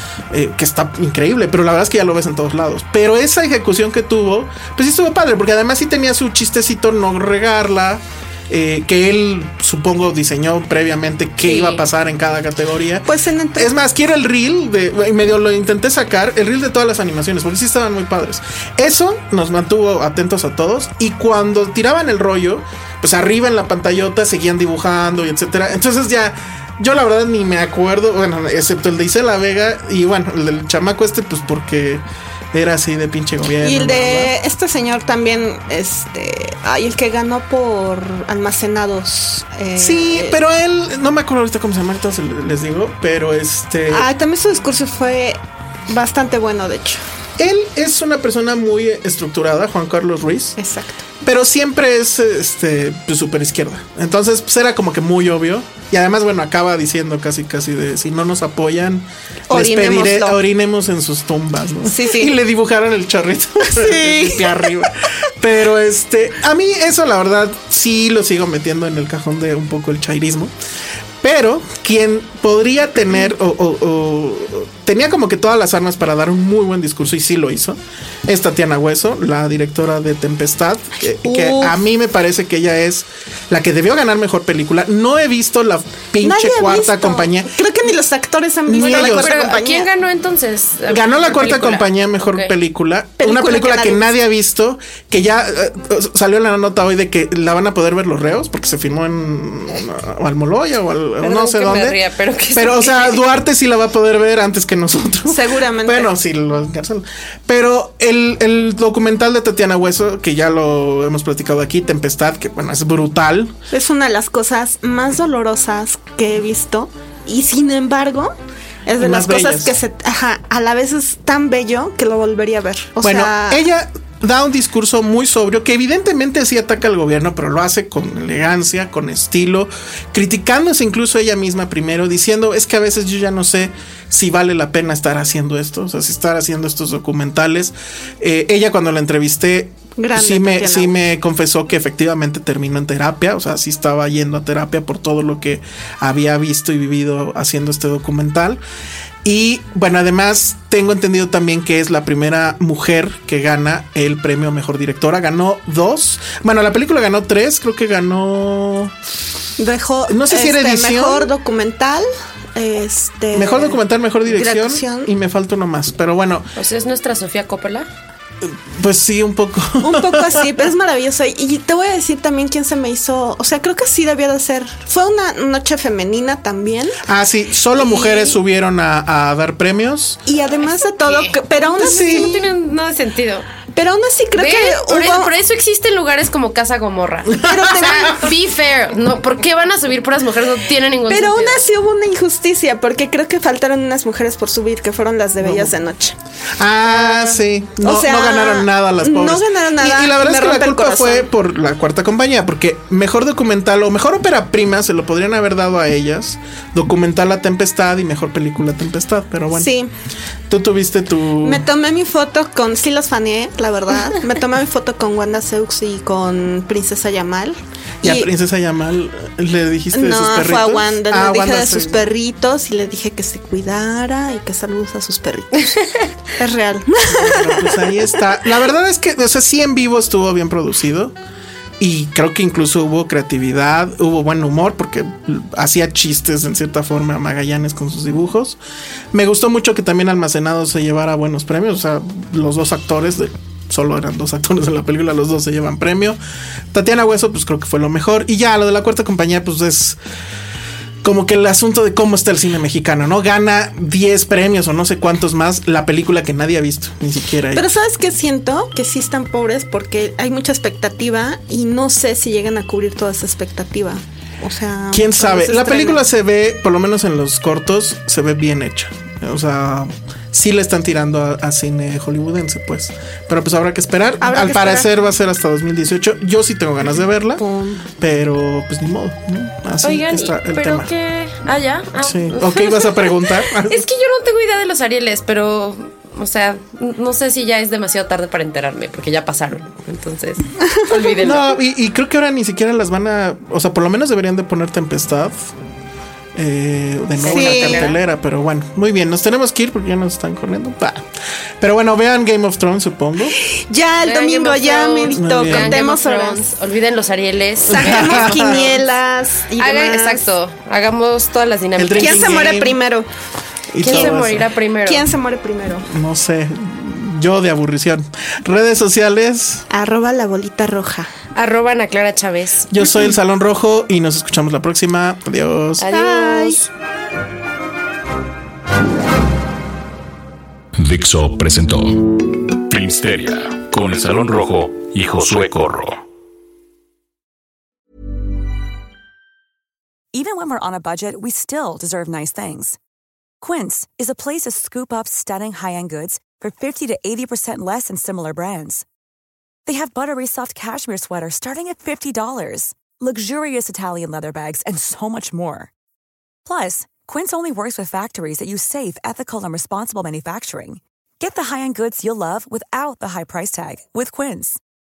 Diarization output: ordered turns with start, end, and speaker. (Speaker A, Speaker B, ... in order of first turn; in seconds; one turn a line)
Speaker A: 0.3-34.3
Speaker B: 11.4-11.8
Speaker C: 13.0-13.7
Speaker C: 33.6-40.4
Speaker A: 39.8-44.1
Speaker C: 43.9-47.0
Speaker A: 47.4-50.6
Speaker C: 50.6-51.0
Speaker A: 51.2-70.5
Speaker C: 59.5-60.4
Speaker C: 61.9-62.3
Speaker C: 63.7-64.7
Speaker A: 71.2-87.5
Speaker C: 81.2-81.8
Speaker C: 86.2-89.9
Speaker A: 88.7-89.3
Speaker B: 88.8-92.5
Speaker A: 90.9-102.0
Speaker C: 93.2-94.1
Speaker B: 101.2-103.3
Speaker A: 102.5-113.5
Speaker C: 105.3-106.1
Speaker C: 113.7-118.3
Speaker C: 118.8-123.6
Speaker A: 119.0-119.8
Speaker A: 123.0-148.6
Speaker C: 140.0-140.9
Speaker A: 149.2-158.9
Speaker C: 159.6-165.1
Speaker A: 160.1-161.3
Speaker A: 163.3-166.5
Speaker B: 166.6-167.9
Speaker A: 168.4-170.7
Speaker C: 169.8-177.0
Speaker A: 177.0-180.2
Speaker C: 177.8-178.4
Speaker C: 180.2-182.5
Speaker B: 180.8-183.4
Speaker A: 181.8-182.3
Speaker C: 183.7-185.3
Speaker B: 184.3-191.6
Speaker C: 187.3-188.3
Speaker A: 187.4-187.9
Speaker C: 191.1-196.2
Speaker A: 195.4-195.7
Speaker A: 196.6-209.7
Speaker C: 196.9-201.3
Speaker C: 209.5-209.9
Speaker A: 210.5-211.6
Speaker C: 211.4-218.3
Speaker A: 218.0-222.1
Speaker C: 219.9-227.9
Speaker A: 227.1-231.2
Speaker A: 231.8-238.6
Speaker A: 239.1-246.2
Speaker A: 246.7-250.0
Speaker A: 251.0-257.7
Speaker C: 257.5-266.0
Speaker A: 264.9-277.4
Speaker C: 274.2-274.9
Speaker C: 277.4-277.9
Speaker A: 278.0-280.9
Speaker B: 279.8-291.5
Speaker A: 282.0-283.9
Speaker A: 291.2-295.5
Speaker A: 296.3-301.1
Speaker B: 297.2-298.0
Speaker C: 297.2-297.9
Speaker A: 301.6-303.4
Speaker C: 303.3-306.4
Speaker B: 304.0-308.7
Speaker A: 305.1-305.8
Speaker A: 307.7-308.7
Speaker C: 307.7-310.3
Speaker B: 309.6-312.4
Speaker A: 311.8-312.8
Speaker C: 311.9-313.1
Speaker A: 313.7-314.5
Speaker B: 313.8-315.1
Speaker C: 313.8-314.2
Speaker C: 314.8-315.9
Speaker A: 315.9-319.7
Speaker C: 319.7-321.1
Speaker B: 321.3-322.7
Speaker A: 322.7-326.0
Speaker B: 325.8-326.7
Speaker C: 325.9-326.6
Speaker D: 330.8-336.0
Speaker E: 340.1-342.8
Speaker E: 343.4-348.9
Speaker E: 349.6-355.7
Speaker E: 356.4-364.6